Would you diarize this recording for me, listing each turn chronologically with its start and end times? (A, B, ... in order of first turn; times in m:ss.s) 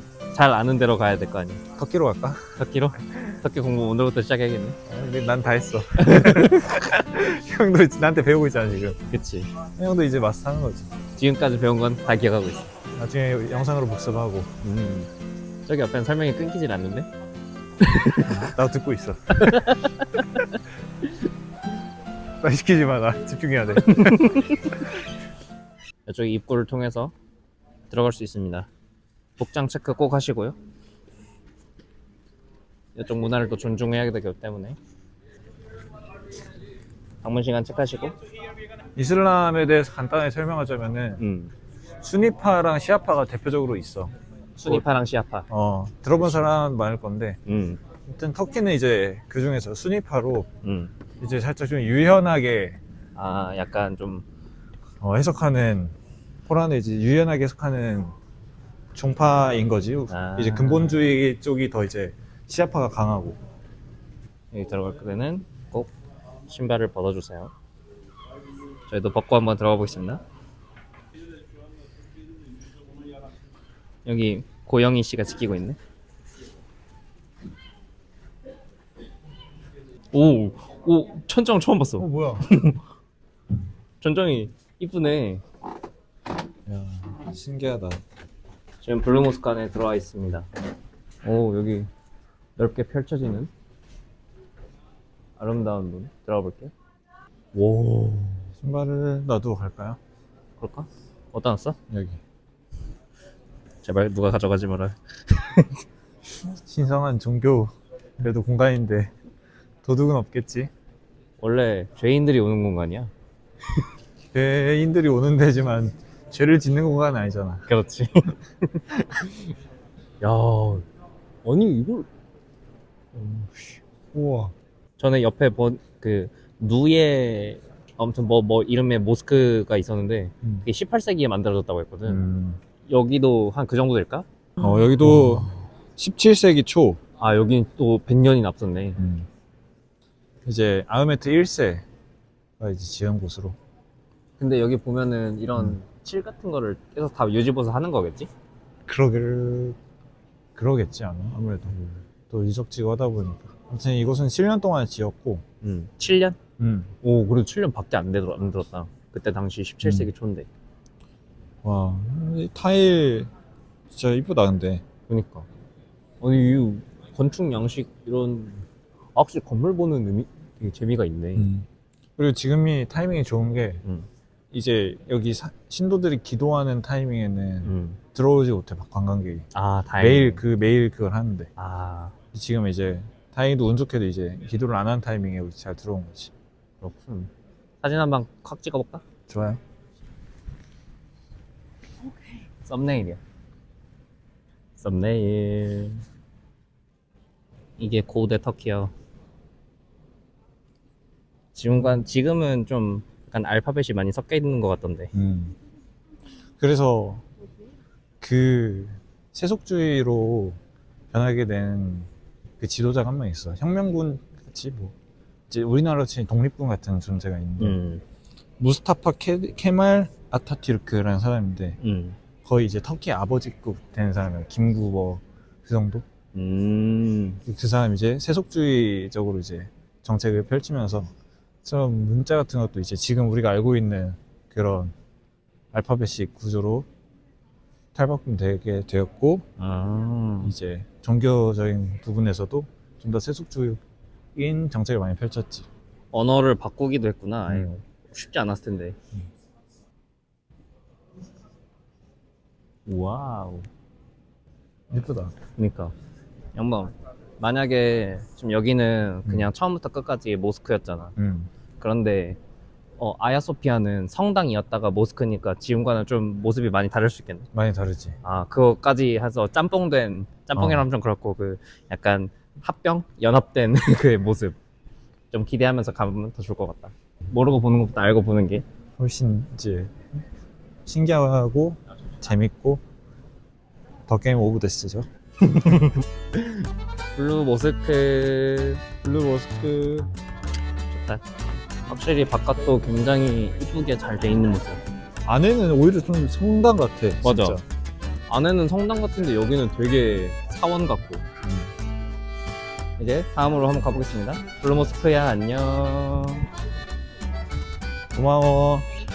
0:00.3-0:01.6 A
0:01.7-0:02.5 B
0:02.6-0:04.8 A
0:04.9-0:09.0 B
0:06.0-0:06.8 A
0:09.1-0:09.5 A
0:09.8-0:10.9 B
0:11.2-0:12.7 A
0:12.9-0:14.5 B
0:14.6-0:15.1 A
0:15.6-0:17.1 A
0:17.8-0:18.5 A
0:18.3-0:19.7 B
0:19.4-0:20.6 A
0:22.4-0:24.4 B
0:24.0-0:24.7 A
0:26.0-0:27.1 A
0:27.9-0:28.7 A
0:29.4-0:30.6 A
0:33.0-0:34.8 A
0:37.2-0:38.2 A
0:39.0-0:41.2 B
0:41.2-0:41.5 A
0:42.0-0:44.1 B
0:44.6-0:45.5 A
0:45.5-0:47.4 B
0:47.4-0:47.8 A
0:48.0-0:50.5 B
0:50.6-0:50.9 A
0:51.2-0:52.8 B
0:53.1-0:54.2 A
0:55.0-0:55.9 B
0:56.5-0:58.1 B
0:58.9-1:03.4 B
1:00.1-1:01.0 A
1:04.5-1:05.9 A
1:06.5-1:07.5 A
1:08.9-1:10.2 A
1:14.0-1:15.8 A
1:20.1-1:22.8 A
1:22.0-1:22.5 B
1:24.0-1:25.4 A
1:26.6-1:28.0 B
1:28.8-1:30.5 A
1:31.2-1:31.9 A
1:32.6-1:33.5 A
1:35.4-1:36.7 A
1:37.5-1:38.4 A
1:38.6-1:40.0 B
1:40.6-1:41.8 A
1:41.9-1:42.2 B
1:43.8-1:45.8 A
1:46.4-1:49.1 B
1:49.8-1:50.7 B
1:51.4-1:53.1 A
1:54.3-1:57.7 B
1:57.7-1:59.3 A
2:00.2-2:00.8 A
2:01.4-2:02.1 A
2:03.1-2:03.8 A
2:04.1-2:04.5 B
2:05.0-2:12.2 A
2:12.0-2:12.6 B
2:12.8-2:14.2 A
2:14.6-2:17.0 B
2:17.2-2:19.0 A
2:19.0-2:19.3 B
2:20.4-2:21.8 B
2:22.6-2:23.6 B
2:24.4-2:28.3 A
2:28.9-2:29.8 B
2:30.6-2:31.7 B
2:31.7-2:32.0 A
2:32.3-2:35.4 B
2:35.6-2:36.4 A
2:36.6-2:36.9 B
2:37.0-2:40.5 A
2:39.8-2:40.1 B
2:41.6-2:43.3 B
2:43.9-2:44.8 B
2:45.1-2:45.5 A
2:46.2-2:51.5 A
2:51.4-2:51.6 B
2:52.2-2:53.8 B
2:54.5-2:59.4 B
2:57.6-2:58.0 A
2:59.5-3:00.4 A
3:00.0-3:01.5 B
3:01.6-3:02.1 A
3:02.3-3:06.3 B
3:06.8-3:07.3 A
3:07.8-3:09.0 A
3:09.3-3:09.6 B
3:12.6-3:13.2 A
3:14.8-3:16.0 A
3:17.8-3:18.9 A
3:21.5-3:25.1 A
3:25.1-3:25.5 B
3:26.6-3:27.2 B
3:28.2-3:30.6 B
3:31.1-3:32.1 B
3:32.6-3:34.9 B
3:35.5-3:37.8 B
3:37.6-3:38.0 A
3:38.6-3:41.8 B
3:41.8-3:42.2 A
3:42.4-3:46.0 B
3:46.3-3:47.4 A
3:47.4-3:51.1 B
3:51.6-3:54.9 B
3:55.7-3:56.9 B
3:57.9-3:59.4 B
3:59.6-4:00.5 A
4:00.4-4:03.8 B
4:04.4-4:05.6 B
4:06.1-4:09.0 A
4:12.8-4:13.7 A
4:14.9-4:15.3 B
4:15.6-4:15.9 A
4:16.5-4:21.2 A
4:21.2-4:21.5 B
4:21.8-4:22.4 A
4:23.0-4:27.5 A
4:27.5-4:28.2 B
4:28.2-4:34.6 A
4:30.6-4:30.8 B
4:35.3-4:38.6 A
4:39.0-4:39.9 B
4:40.8-4:42.8 B
4:44.1-4:45.1 B
4:45.4-4:48.8 A
4:49.0-4:50.1 B
4:50.9-4:51.2 A
4:51.9-4:54.8 A
4:55.2-4:57.6 B
4:57.2-4:57.6 A
4:58.3-5:01.2 A
5:01.4-5:01.7 B
5:03.0-5:06.5 A
5:08.1-5:08.8 B